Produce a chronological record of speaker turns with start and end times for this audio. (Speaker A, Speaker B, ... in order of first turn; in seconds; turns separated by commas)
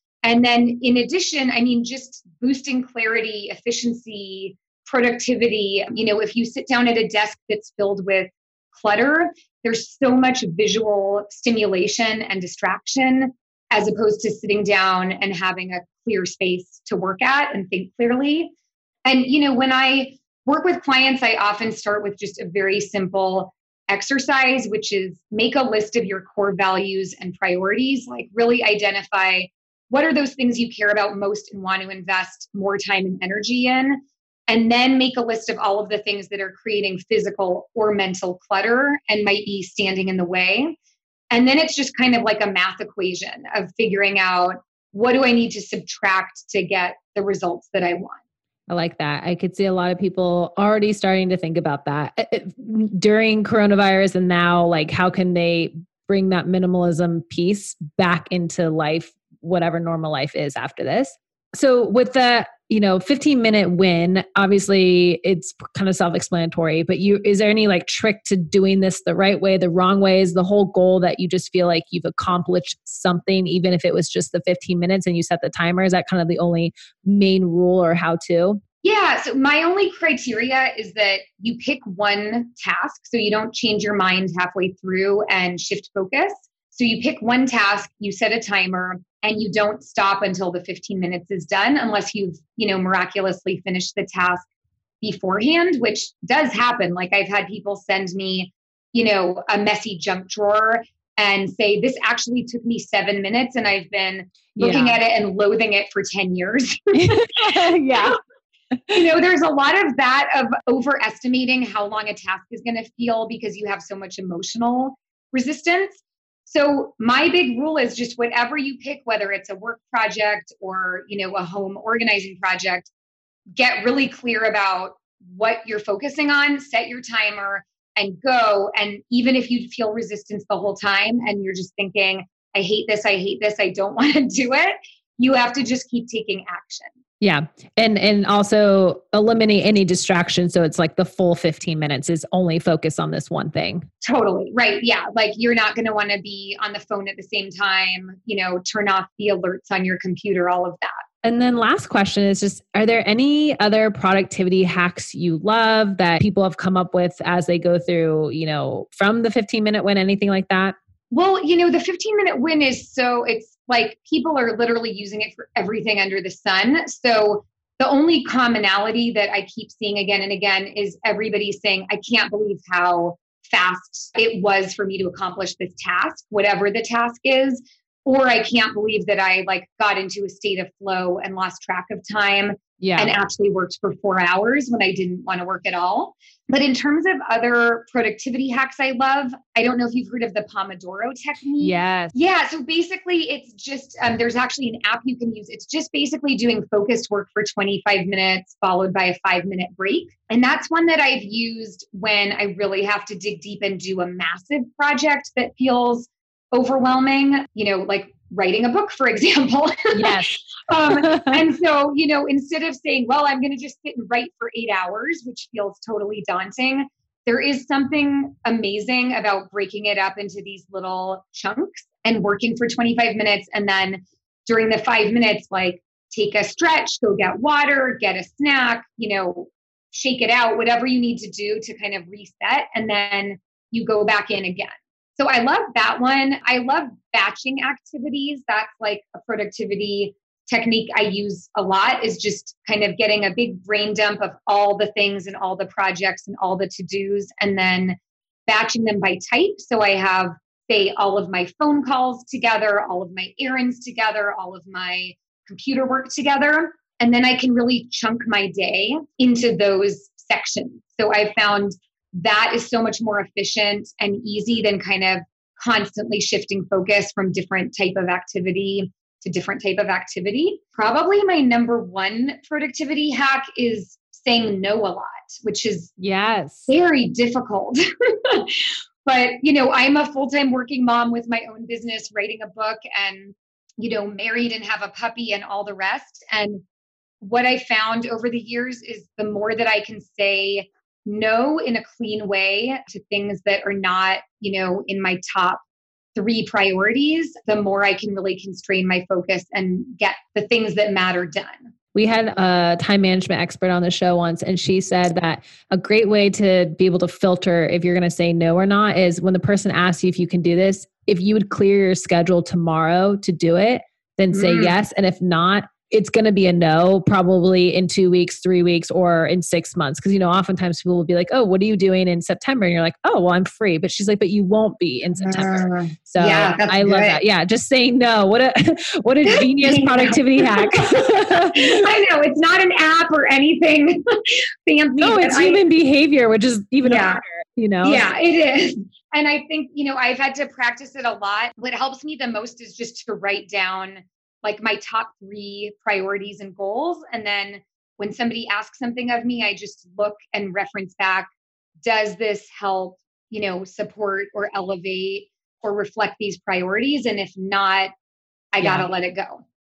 Speaker A: 0.2-18.5, Speaker A: 19.1-40.8, Speaker A: 41.3-48.2, Speaker B: 48.7-78.6, Speaker A: 78.8-94.4, Speaker A: 95.0-107.0, Speaker B: 104.5-105.0, Speaker B: 106.9-108.2, Speaker B: 108.8-109.0, Speaker A: 108.9-122.9, Speaker A: 123.6-136.9, Speaker B: 137.2-143.9, Speaker A: 144.0-151.0, Speaker B: 151.2-160.8, Speaker A: 161.1-275.9, Speaker B: 182.8-183.1, Speaker B: 191.6-192.1, Speaker B: 209.9-211.4, Speaker B: 276.0-276.7, Speaker A: 276.7-286.6, Speaker A: 287.2-295.6, Speaker A: 296.1-301.7, Speaker B: 301.9-331.8, Speaker A: 314.3-314.8, Speaker A: 325.2-327.2, Speaker A: 329.2-335.6, Speaker B: 335.0-338.1, Speaker A: 336.8-337.2, Speaker A: 337.8-351.3, Speaker A: 351.8-357.9, Speaker A: 358.5-359.4, Speaker B: 358.6-358.9